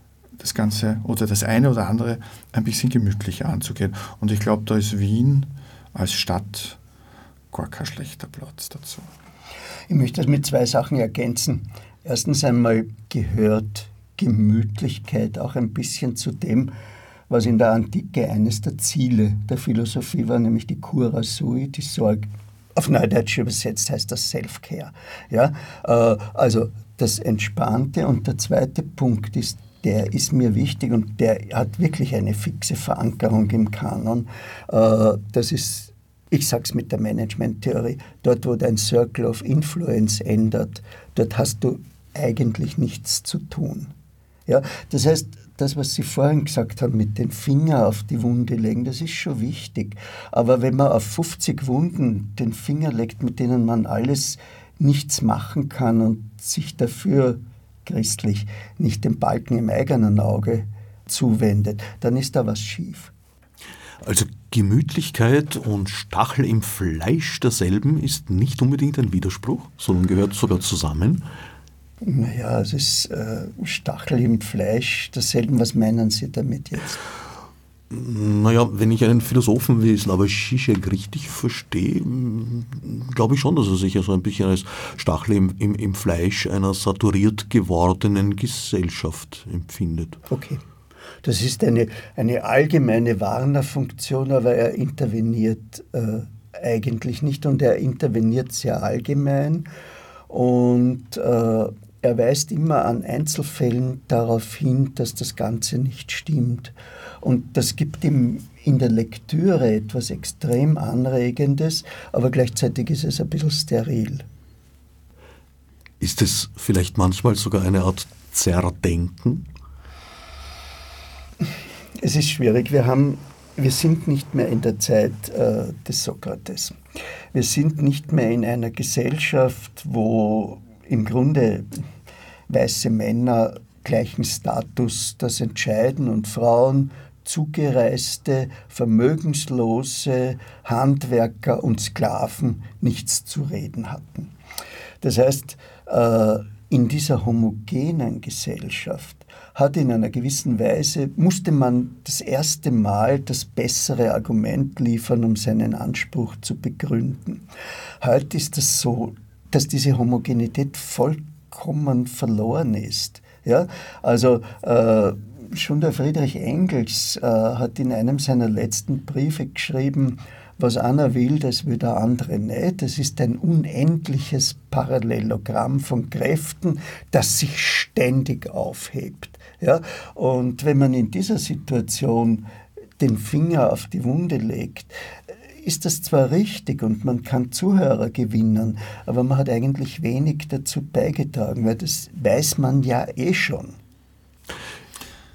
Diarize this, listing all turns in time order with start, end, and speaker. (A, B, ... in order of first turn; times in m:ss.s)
0:00.4-0:06.8 A
0:07.5-0:09.1 A
0:09.9-0:16.7 B
0:17.3-0:43.9 B
0:44.5-1:03.1 B
1:04.0-1:11.2 C
1:12.0-1:17.0 B
1:17.9-1:30.2 C
1:30.3-1:30.6 B
1:31.2-1:39.7 B
1:40.3-1:54.3 B
1:56.0-1:59.5 C
2:02.0-2:06.8 B
2:07.3-2:11.8 B
2:12.5-2:24.3 B
2:25.0-2:37.4 B
2:38.0-3:02.5 B
3:03.0-3:04.9 B
3:05.6-3:13.8 B